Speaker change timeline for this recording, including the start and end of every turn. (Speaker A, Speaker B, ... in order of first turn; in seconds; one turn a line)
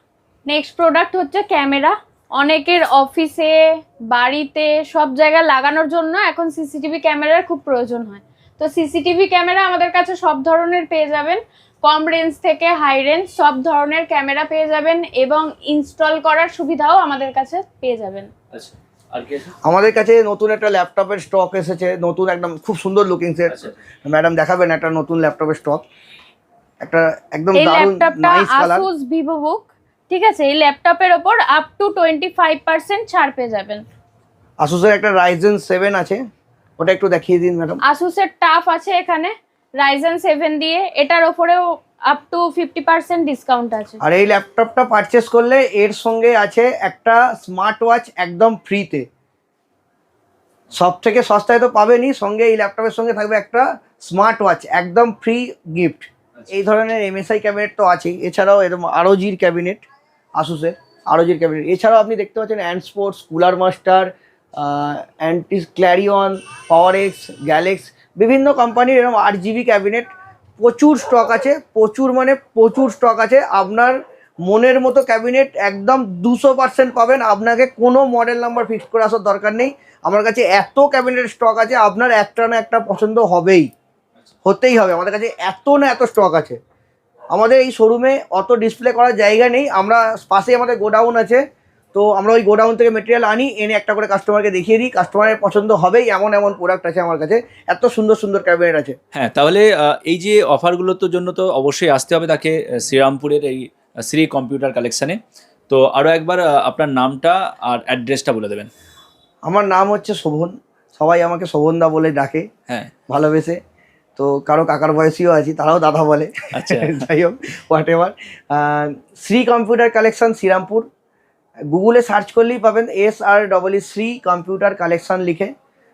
Speaker A: 0.5-18.3
Speaker B: 18.5-19.5
Speaker C: 19.6-25.8
Speaker C: 26.8-28.9
Speaker A: 27.5-33.8
Speaker C: 34.6-36.2
Speaker C: 36.8-37.8
Speaker A: 37.8-44.0
Speaker C: 44.0-49.1
Speaker C: 50.7-59.8
Speaker C: 60.4-83.7
Speaker C: 84.4-86.6
Speaker C: 87.3-99.0
Speaker B: 99.1-108.7
Speaker C: 109.4-112.5
Speaker C: 113.1-113.6
Speaker C: 114.2-120.9
Speaker B: 116.5-117.0
Speaker C: 121.7-125.5